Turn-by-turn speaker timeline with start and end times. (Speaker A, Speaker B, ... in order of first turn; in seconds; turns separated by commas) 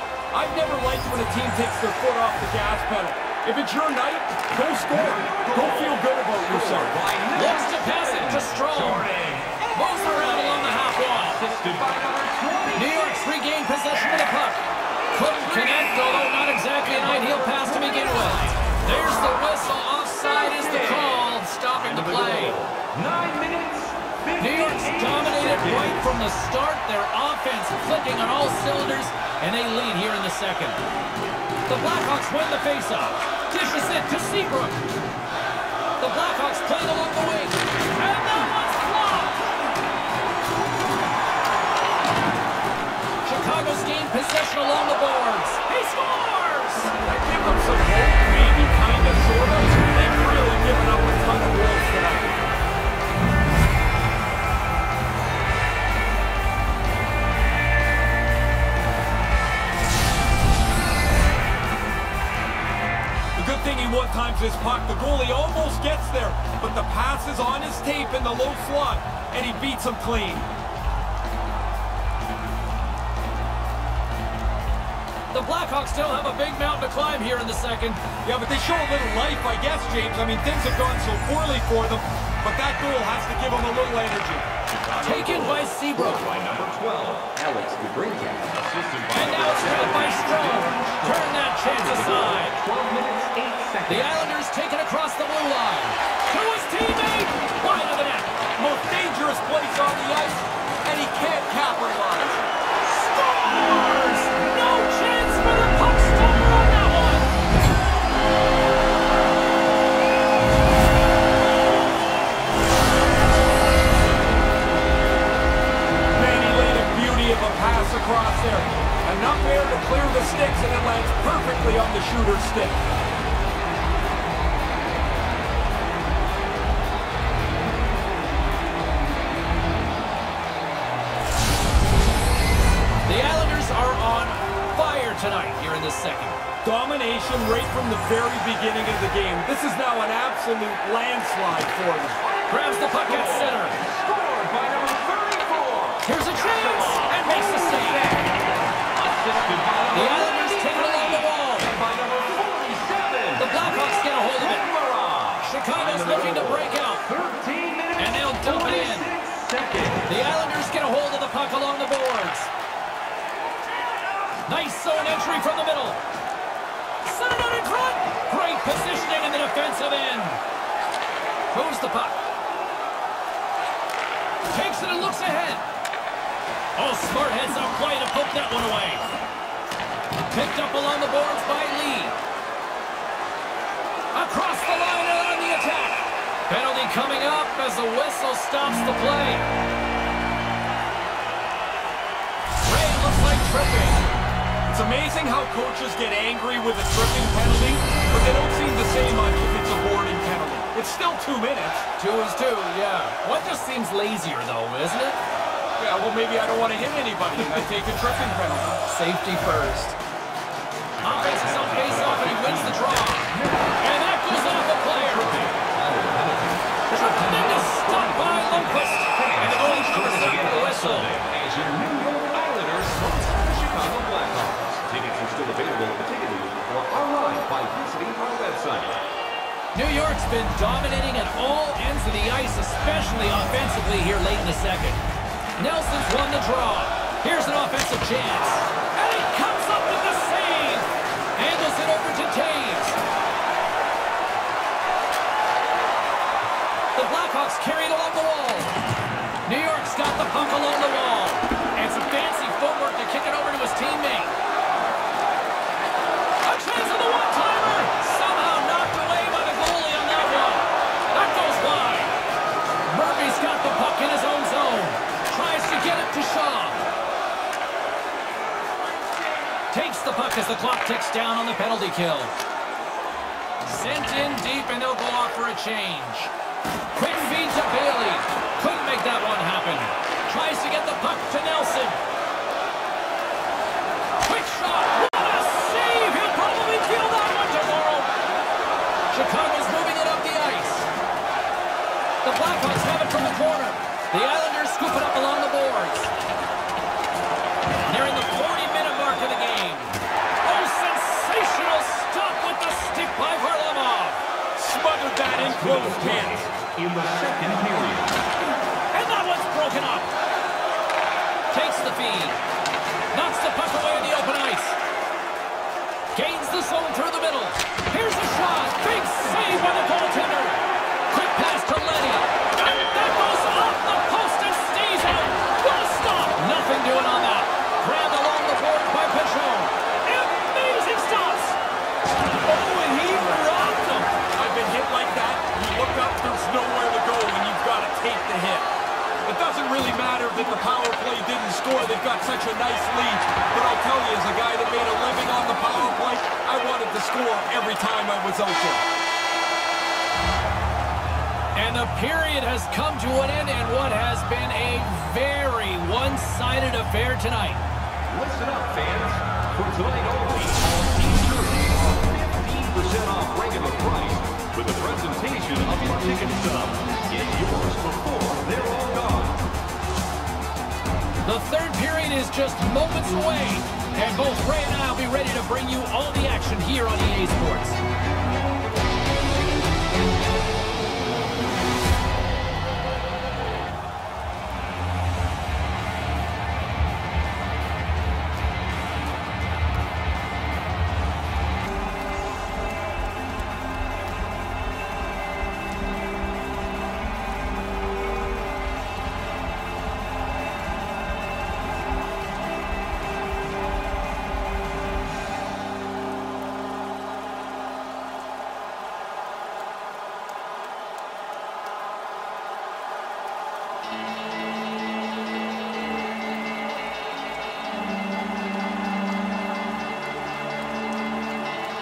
Speaker A: 0.3-7.0, Speaker B: 4.8-13.3, Speaker C: 7.3-9.1, Speaker C: 9.7-11.4, Speaker C: 12.7-22.6, Speaker B: 15.1-16.2, Speaker B: 16.8-19.4, Speaker B: 20.1-26.0, Speaker C: 24.4-30.8, Speaker C: 31.7-34.9, Speaker C: 36.0-39.5, Speaker C: 43.2-46.9, Speaker A: 47.0-52.4, Speaker A: 63.4-70.5, Speaker C: 75.3-78.0, Speaker A: 78.2-84.5, Speaker B: 84.9-94.3, Speaker C: 85.0-86.2, Speaker C: 89.1-92.6, Speaker C: 93.9-98.4, Speaker A: 98.6-102.4, Speaker C: 102.8-107.3, Speaker A: 116.1-122.8, Speaker C: 133.1-136.4, Speaker A: 136.6-142.2, Speaker B: 142.2-160.1, Speaker C: 142.5-143.8, Speaker C: 146.0-148.1, Speaker C: 149.9-151.8, Speaker C: 153.4-154.7, Speaker C: 155.4-157.0, Speaker C: 158.0-159.1, Speaker C: 160.1-162.5, Speaker C: 164.4-166.0, Speaker C: 167.0-170.4, Speaker C: 171.5-172.2, Speaker C: 174.5-175.6, Speaker C: 176.8-179.1, Speaker C: 180.3-182.2, Speaker C: 184.1-189.5, Speaker C: 192.6-194.0, Speaker A: 194.7-201.8, Speaker C: 202.0-205.2, Speaker A: 205.8-208.8, Speaker C: 208.9-210.0, Speaker B: 211.0-213.8, Speaker C: 211.0-215.4, Speaker B: 214.3-229.0, Speaker C: 216.9-221.1, Speaker C: 229.7-235.0, Speaker C: 235.6-243.0, Speaker C: 246.9-248.7, Speaker C: 249.5-254.3, Speaker C: 256.4-262.1, Speaker C: 262.9-266.8, Speaker C: 269.7-272.3, Speaker C: 273.6-276.3, Speaker C: 276.9-282.0, Speaker C: 284.2-288.1, Speaker C: 289.1-290.9, Speaker C: 292.2-296.1, Speaker C: 297.9-304.2, Speaker A: 304.6-306.5, Speaker B: 305.4-308.1, Speaker C: 308.9-310.1, Speaker C: 311.5-312.4, Speaker C: 313.1-314.8, Speaker C: 316.1-331.6, Speaker C: 332.4-334.1, Speaker A: 334.3-338.7, Speaker A: 339.2-348.8, Speaker C: 351.6-357.7, Speaker B: 358.1-369.4, Speaker C: 371.2-377.8